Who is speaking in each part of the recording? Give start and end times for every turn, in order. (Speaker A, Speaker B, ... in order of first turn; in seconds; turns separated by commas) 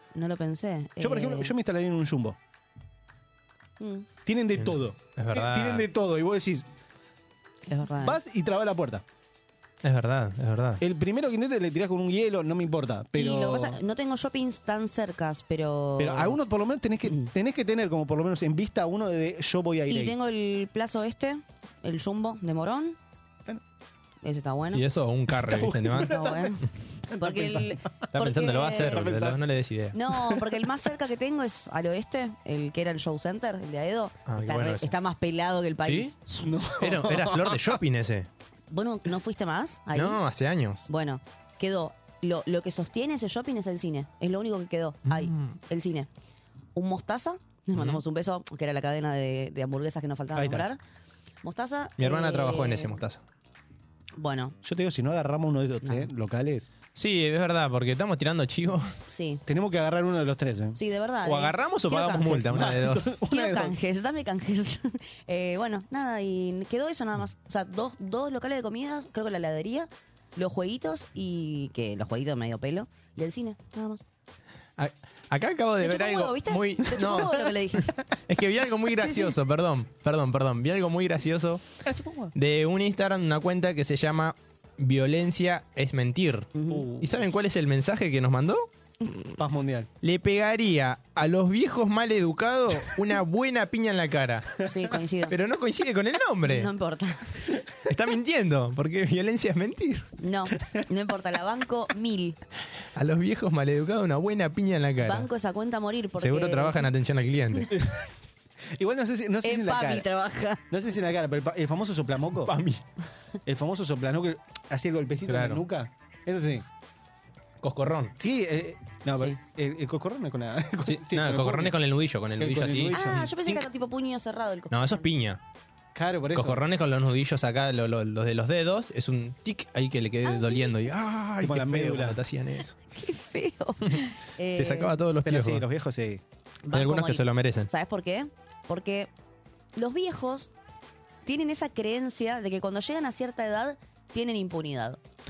Speaker A: 0.1-1.5, Speaker B: 1.0-2.4, Speaker A: 3.8-4.1, Speaker B: 4.2-6.7, Speaker C: 4.6-5.9, Speaker A: 7.7-8.2, Speaker B: 8.0-9.0, Speaker C: 9.8-10.8, Speaker B: 10.8-13.8, Speaker A: 13.1-16.4, Speaker B: 16.0-20.1, Speaker A: 19.9-23.0, Speaker A: 24.2-24.8, Speaker C: 24.7-26.1, Speaker B: 25.3-26.5, Speaker A: 25.9-26.6, Speaker B: 27.1-28.1, Speaker A: 27.2-28.9, Speaker C: 28.1-29.9, Speaker B: 28.8-29.4, Speaker A: 29.9-36.5, Speaker C: 34.3-34.9, Speaker C: 35.8-36.1, Speaker B: 36.4-37.8, Speaker C: 36.8-38.3, Speaker A: 38.7-40.2, Speaker C: 39.9-40.9, Speaker A: 40.9-46.1, Speaker C: 45.1-45.6, Speaker A: 46.7-50.8, Speaker C: 47.7-48.0, Speaker B: 50.3-50.7, Speaker A: 51.4-53.0, Speaker C: 52.0-53.2, Speaker A: 54.1-54.5, Speaker B: 54.6-56.7, Speaker A: 55.8-56.1, Speaker C: 56.9-58.9, Speaker A: 59.1-59.4, Speaker B: 59.5-60.8, Speaker A: 60.7-62.6, Speaker C: 61.2-63.1, Speaker B: 62.4-63.7, Speaker A: 63.3-74.0, Speaker C: 74.8-77.5, Speaker A: 75.8-77.9, Speaker C: 78.3-81.6, Speaker A: 79.0-79.3, Speaker A: 81.8-82.3, Speaker C: 82.3-88.7, Speaker A: 86.5-86.8, Speaker B: 86.7-87.2, Speaker B: 89.4-89.9, Speaker C: 90.0-94.5, Speaker A: 94.7-95.3, Speaker C: 95.3-96.7, Speaker A: 96.5-97.5, Speaker C: 97.8-100.1, Speaker A: 100.2-102.4, Speaker C: 102.9-105.3, Speaker A: 105.0-106.9, Speaker C: 106.2-107.7, Speaker B: 107.7-108.0, Speaker B: 108.7-110.0, Speaker A: 109.4-110.6, Speaker B: 110.7-112.5, Speaker C: 112.5-112.8, Speaker B: 113.5-116.7, Speaker C: 115.3-115.6, Speaker C: 117.6-118.1, Speaker B: 118.2-121.7, Speaker C: 120.8-123.2, Speaker B: 122.4-123.6, Speaker A: 122.9-125.0, Speaker C: 124.7-125.4, Speaker B: 125.9-126.6, Speaker C: 126.3-132.8, Speaker A: 130.2-130.7, Speaker B: 131.4-132.2, Speaker A: 132.9-134.9, Speaker C: 134.6-135.6, Speaker B: 135.2-136.2, Speaker A: 136.6-139.1, Speaker C: 136.7-137.7, Speaker A: 139.8-140.5, Speaker A: 141.2-145.0